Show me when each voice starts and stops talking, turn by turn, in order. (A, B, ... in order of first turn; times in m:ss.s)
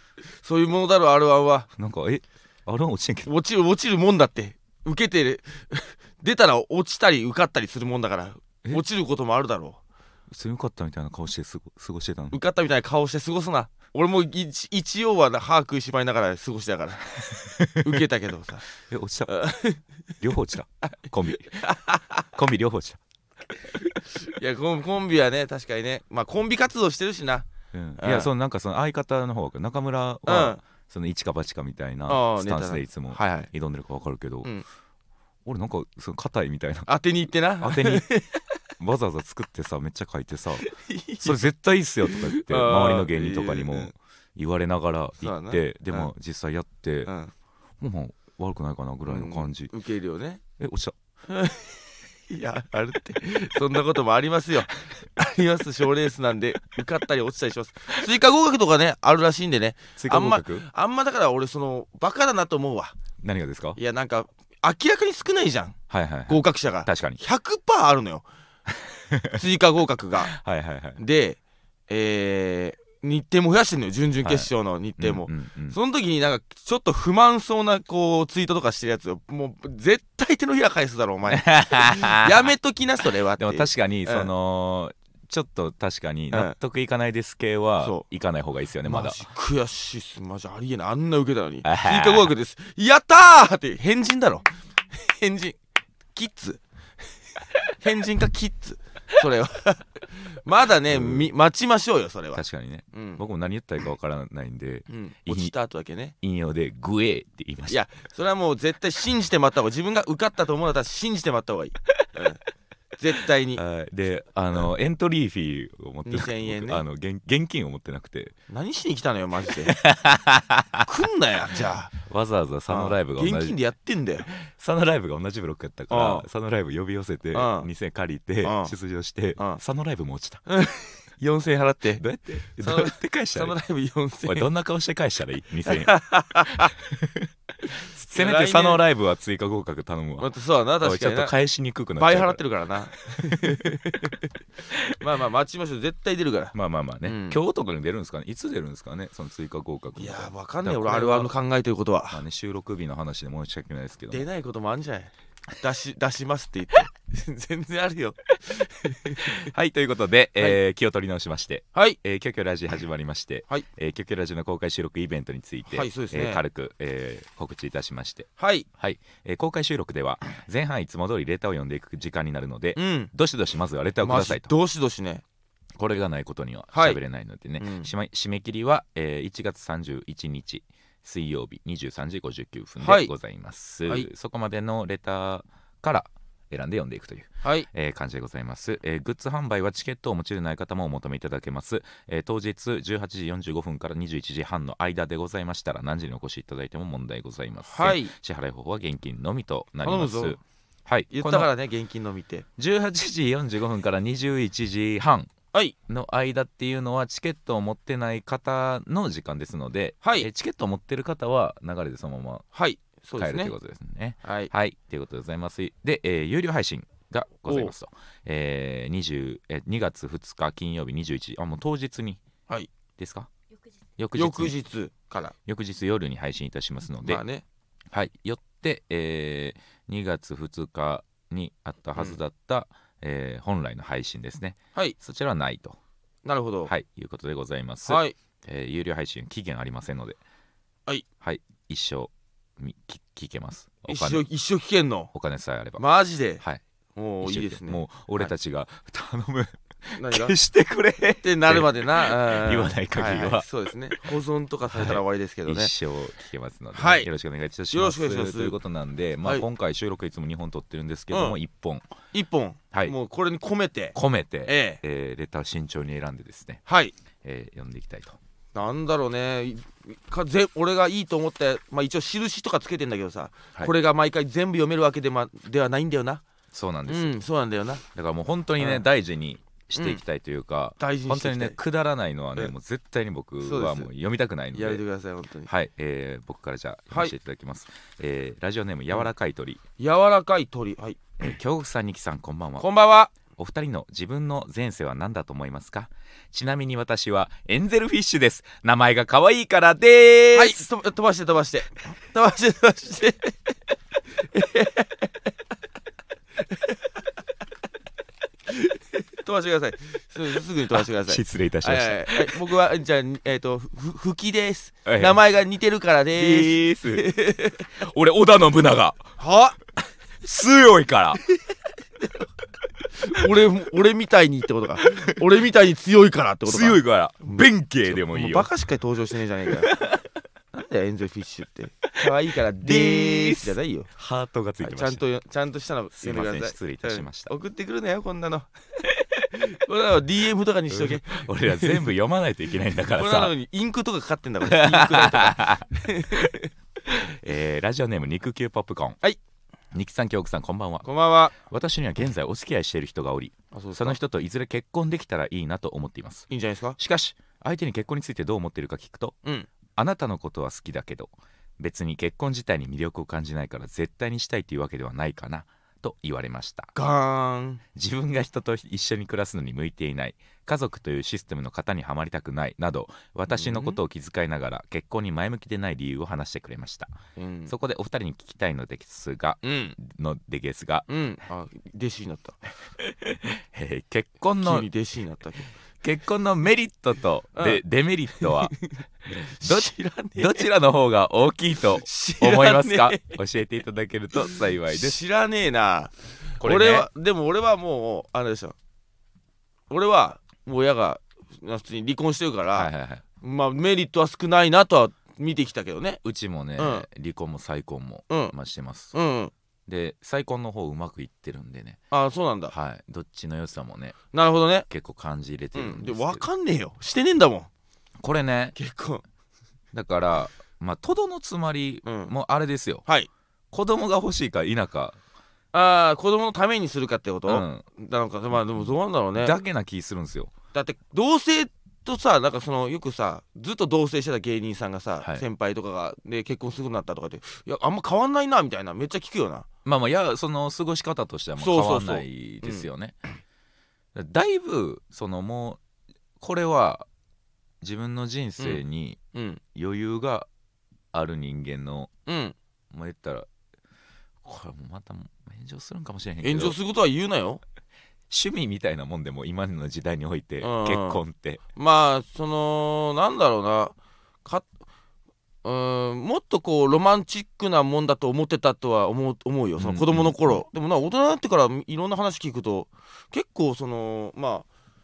0:00.4-0:01.7 A
0:01.8-0:03.3 B
0:03.3-0:09.8 A
0:10.3-0:12.4 B
0:12.3-0:17.0 A
0:17.2-0:18.0 B
0:17.8-0:18.6 A
0:18.8-0:19.4 B
0:19.3-0:19.8 A
0:20.2-0:21.7 B
0:21.6-0:22.2 A
0:22.3-0:23.0 B
0:24.1-0:28.3 A
0:27.7-0:34.5 B
0:30.3-0:30.6 A
0:32.1-0:33.5 A
0:35.4-0:36.9 B
0:36.9-0:38.3 A
0:37.6-0:38.1 B
0:38.8-0:40.7 B
0:40.6-0:41.4 A
0:41.2-0:47.1 B
0:42.1-0:43.9 A
0:45.2-0:46.1 A
0:47.1-0:47.3 A
0:47.8-0:49.7 B
0:49.1-0:50.4 A
0:50.6-0:51.0 B
0:51.3-1:03.0 A
1:00.0-1:00.7 B
1:03.2-1:03.8 B
1:03.8-1:05.8 A
1:05.9-1:07.2 B
1:06.3-1:08.2 A
1:08.7-1:09.4 B
1:09.3-1:10.3 A
1:10.2-1:11.0 B
1:11.0-1:24.3 A
1:14.2-1:15.8 B
1:21.3-1:22.5 B
1:23.4-1:29.2 B
1:28.8-1:35.6 A
1:31.6-1:32.3 B
1:36.2-1:36.6 A
1:37.8-1:42.4 A
1:40.9-1:41.3 B
1:42.3-1:45.5 B
1:42.9-1:43.2 A
1:44.9-1:46.2 A
1:46.2-1:47.8 B
1:47.7-1:52.4 A
1:53.0-1:53.6 A
1:53.6-1:58.3 B
1:56.1-1:56.8 A
1:58.5-1:59.8 A
1:59.6-2:00.9 B
2:00.9-2:01.9 A
2:01.9-2:03.6 B
2:02.7-2:04.3 A
2:04.3-2:10.4 B
2:05.9-2:06.3 A
2:07.3-2:07.7 A
2:08.4-2:08.7 A
2:10.5-2:12.0 A
2:12.0-2:13.6 B
2:12.6-2:14.5 A
2:14.3-2:20.3 B
2:15.7-2:16.7 A
2:18.1-2:18.8 A
2:20.2-2:21.3 A
2:20.8-2:23.8 B
2:22.0-2:24.3 A
2:24.7-2:25.0 B
2:25.0-2:27.4 A
2:26.5-2:31.3 B
2:30.0-2:32.2 A
2:32.1-2:34.3 B
2:34.1-2:39.5 A
2:39.1-2:54.5 B
2:45.7-2:46.4 A
2:48.4-2:48.7 A
2:52.8-2:53.1 A
2:54.0-2:55.2 A
2:55.8-3:21.5 B
2:56.7-2:57.0 A
2:57.6-2:57.9 A
3:02.8-3:03.1 A
3:17.7-3:18.1 A
3:19.8-3:20.4 A
3:21.1-3:22.5 A
3:22.6-3:25.3 B
3:25.9-3:32.4 B
3:30.0-3:30.3 A
3:32.5-3:33.5 A
3:33.2-3:42.2 B
3:34.2-3:34.5 A
3:37.5-3:37.7 A
3:43.0-3:43.3 B
3:44.0-3:44.6 B
3:44.1-3:45.4 A
3:45.5-3:47.2 B
3:47.0-3:47.4 A
3:47.9-3:55.8 B
3:56.2-3:56.7 A
3:56.7-4:00.2 B
3:57.9-3:58.2 A
4:01.2-4:04.2 B
4:03.9-4:05.1 A
4:05.1-4:05.8 B
4:05.8-4:06.4 A
4:07.0-4:08.3 A
4:07.2-4:14.1 B
4:10.0-4:10.4 A
4:11.2-4:15.7 A
4:14.7-4:21.8 B
4:16.8-4:17.1 A
4:17.7-4:18.6 A
4:21.1-4:21.4 A
4:22.1-4:24.8 A
4:24.0-4:26.6 B
4:26.7-4:26.9 A
4:27.2-4:28.2 B
4:28.6-4:36.2 A
4:36.5-4:37.2 B
4:36.9-4:37.8 A
4:37.9-4:44.8 B
4:38.6-4:38.8 A
4:40.8-4:41.6 A
4:43.4-4:43.9 A
4:44.5-4:45.5 A
4:45.5-4:49.6 B
4:49.8-4:51.0 A
4:51.2-4:52.7 B
4:52.6-4:53.1 A
4:53.2-5:00.7 B
5:00.4-5:03.5 A
5:04.2-5:05.1 A
5:06.5-5:06.8 A
5:08.6-5:17.7 A
5:10.7-5:12.4 B
5:14.8-5:15.2 B
5:16.2-5:17.1 B
5:17.7-5:19.1 B
5:19.2-5:19.6 A
5:20.2-5:21.2 B
5:23.0-5:29.8 A
5:24.8-5:25.2 B
5:26.5-5:28.5 B
5:29.7-5:30.0 B
5:30.5-5:33.9 A
5:32.6-5:35.0 B
5:34.6-5:38.5 A
5:36.0-5:37.3 B
5:39.3-5:41.8 A
5:40.7-5:43.3 B
5:42.9-5:46.5 A
5:44.4-5:49.0 B
5:49.7-5:56.3 B
5:50.8-5:51.3 A
5:53.5-5:54.0 A
5:56.3-5:56.8 A
5:56.8-5:59.2 B
5:59.8-6:06.7 B
6:06.8-6:07.6 A
6:07.8-6:17.0 B
6:13.3-6:13.8 A
6:17.2-6:17.5 A
6:17.5-6:20.9 B
6:19.4-6:19.8 A
6:20.9-6:22.4 A
6:22.8-6:24.7 B
6:24.4-6:25.5 A
6:25.8-6:28.5 B
6:27.4-6:27.6 A
6:28.2-6:28.8 A
6:29.1-6:35.0 B
6:29.4-6:30.5 A
6:31.8-6:33.2 A
6:34.3-6:38.6 A
6:36.4-6:36.9 B
6:39.7-6:42.7 A
6:42.5-6:43.0 B
6:43.2-6:46.0 A
6:46.0-6:49.0 B
6:46.6-6:46.9 A
6:48.1-6:48.4 A
6:48.9-6:49.3 A
6:49.7-6:51.8 B
6:51.9-6:52.5 A
6:52.5-6:54.0 B
6:54.1-6:54.7 A
6:54.7-6:56.2 B
6:55.6-6:57.5 A
6:58.0-6:58.6 B
6:58.6-6:59.0 A
6:59.7-7:02.8 B
7:01.8-7:02.1 A
7:03.5-7:05.0 B
7:05.5-7:09.4 A
7:07.3-7:07.6 B
7:08.6-7:10.3 B
7:10.5-7:19.5 A
7:19.6-7:23.0 B
7:21.4-7:22.7 A
7:24.0-7:25.6 B
7:26.2-7:26.9 B
7:27.6-7:29.0 B
7:29.1-7:29.4 A
7:29.5-7:30.3 B
7:30.9-7:31.9 B
7:32.1-7:32.4 A
7:32.7-7:33.3 B
7:34.2-7:36.6 B
7:36.2-7:37.4 A
7:38.1-7:41.4 B
7:40.4-7:41.0 A
7:41.6-7:44.5 A
7:45.4-7:54.5 A
7:49.6-7:50.4 B